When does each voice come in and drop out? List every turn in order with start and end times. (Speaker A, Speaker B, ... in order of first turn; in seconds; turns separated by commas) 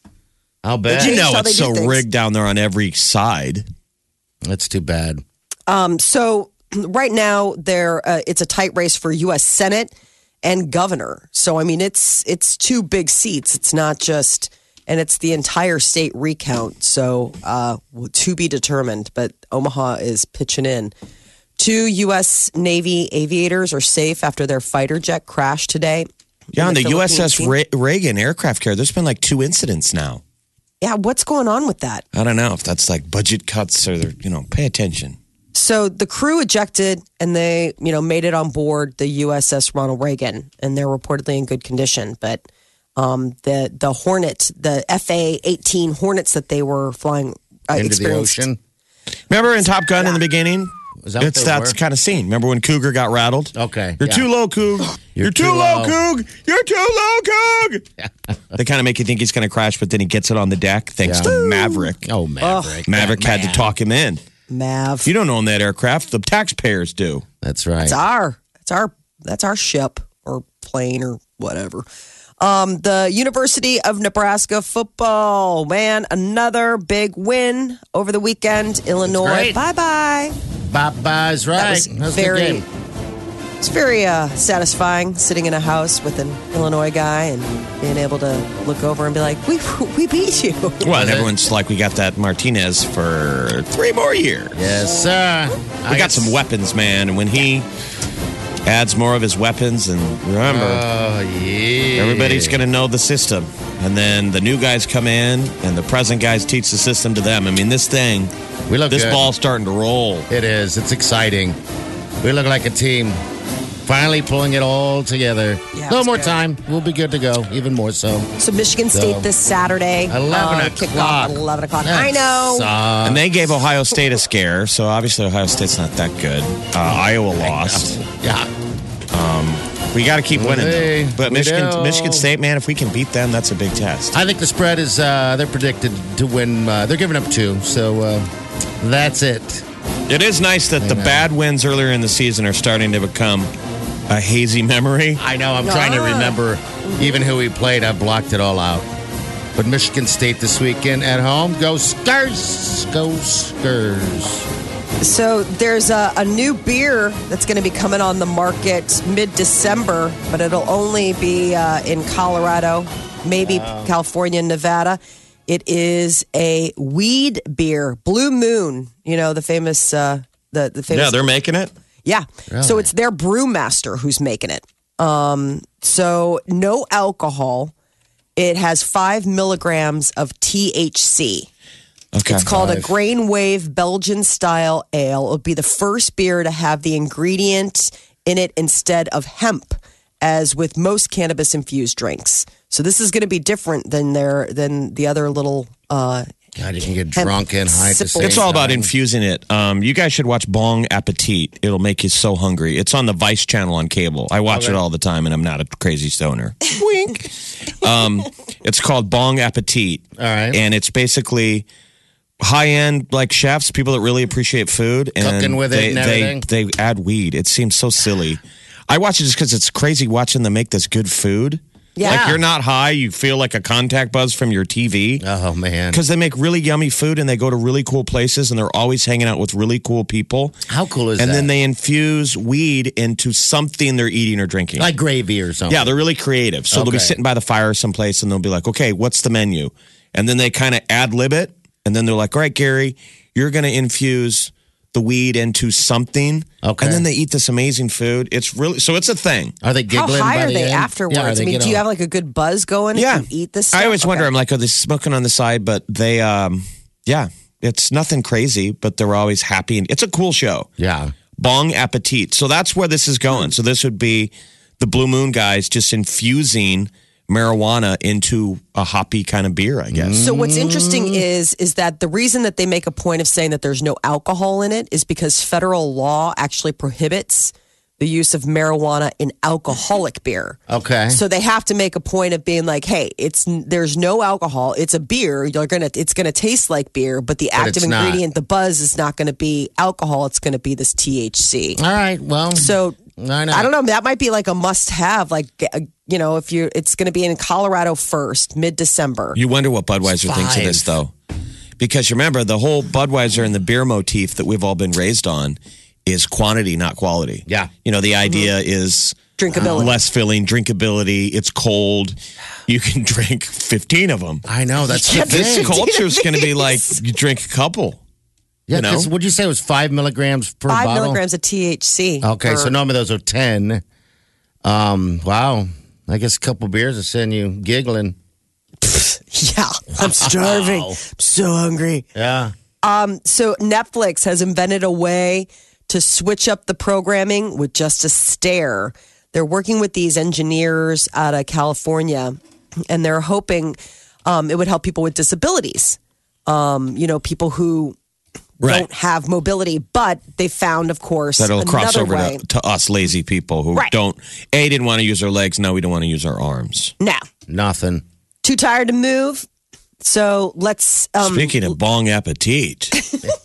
Speaker A: 0.6-1.2, Speaker B: 0.9-2.0, Speaker C: 0.9-3.7, Speaker A: 4.4-5.2, Speaker B: 5.7-9.9, Speaker B: 10.4-20.9, Speaker B: 21.6-27.5, Speaker C: 26.5-30.2, Speaker B: 30.8-32.0, Speaker C: 32.1-35.2, Speaker B: 35.5-42.4, Speaker B: 43.0-48.4, Speaker A: 47.7-48.6, Speaker C: 49.3-57.8, Speaker A: 51.0-51.8, Speaker A: 53.5-54.3, Speaker A: 55.1-56.0, Speaker C: 58.5-62.0, Speaker A: 61.0-61.4, Speaker B: 61.2-61.8, Speaker A: 62.0-63.7, Speaker B: 62.4-62.8, Speaker C: 62.9-64.2, Speaker B: 64.5-65.1, Speaker C: 65.0-67.2, Speaker A: 67.4-68.0, Speaker B: 67.8-71.8, Speaker B: 72.4-80.3, Speaker A: 79.0-79.6, Speaker A: 80.7-82.6, Speaker B: 81.6-82.6, Speaker B: 83.6-90.8, Speaker C: 90.8-94.6, Speaker A: 90.9-91.3, Speaker A: 94.5-96.4, Speaker C: 95.9-97.7, Speaker C: 98.7-100.8, Speaker A: 100.5-102.6, Speaker C: 102.0-108.3, Speaker A: 108.7-109.2, Speaker C: 108.9-110.3, Speaker A: 110.3-111.6, Speaker A: 112.2-113.2, Speaker A: 113.8-118.3, Speaker B: 115.7-116.4, Speaker B: 118.4-122.7, Speaker A: 118.9-119.3, Speaker A: 120.1-123.2, Speaker C: 123.0-128.0, Speaker A: 127.4-128.5, Speaker C: 129.1-134.2, Speaker A: 130.3-132.3, Speaker A: 134.1-138.3, Speaker A: 138.8-139.6, Speaker C: 140.1-143.5, Speaker A: 140.8-141.3, Speaker C: 144.1-145.2, Speaker A: 145.2-148.9, Speaker B: 145.6-147.1, Speaker A: 149.6-154.5, Speaker B: 155.0-171.2, Speaker A: 163.4-163.9, Speaker C: 170.9-171.7, Speaker B: 172.0-177.7, Speaker A: 172.5-172.9, Speaker B: 178.3-181.5, Speaker C: 182.1-182.4, Speaker B: 182.3-196.3, Speaker A: 182.4-182.9, Speaker A: 196.6-198.9, Speaker B: 197.1-198.4, Speaker C: 198.2-211.7, Speaker A: 204.5-204.8, Speaker A: 210.2-210.6, Speaker C: 212.4-225.2, Speaker A: 215.2-216.4, Speaker B: 221.9-222.2, Speaker A: 222.0-222.4, Speaker A: 225.2-226.0, Speaker C: 225.9-230.6, Speaker A: 230.7-231.5, Speaker C: 231.2-234.9, Speaker A: 234.8-236.0, Speaker C: 235.7-249.5, Speaker A: 236.7-237.2, Speaker A: 246.6-247.0, Speaker A: 249.6-251.8, Speaker B: 249.9-254.3, Speaker C: 252.9-260.7, Speaker A: 260.8-261.1, Speaker C: 261.4-270.2, Speaker A: 269.9-271.2, Speaker B: 270.2-280.6, Speaker A: 280.7-281.2, Speaker B: 281.1-291.8, Speaker A: 287.6-288.2, Speaker A: 291.8-293.7, Speaker B: 292.5-293.0, Speaker B: 293.5-299.4, Speaker C: 299.3-301.1, Speaker A: 300.1-300.9, Speaker C: 301.8-314.4, Speaker B: 309.4-309.9, Speaker A: 309.6-309.9, Speaker A: 314.4-315.8, Speaker B: 314.9-317.0, Speaker C: 315.2-318.0, Speaker A: 318.7-321.2, Speaker C: 318.7-319.1, Speaker B: 320.7-322.7, Speaker A: 322.2-323.8, Speaker A: 324.6-328.1, Speaker B: 328.8-332.1, Speaker A: 330.0-331.0, Speaker A: 332.1-332.5, Speaker B: 332.8-348.0, Speaker B: 348.6-352.4, Speaker C: 348.6-348.9, Speaker C: 351.4-356.9, Speaker A: 357.5-358.0, Speaker B: 358.4-359.4, Speaker B: 360.0-361.7, Speaker C: 361.2-362.9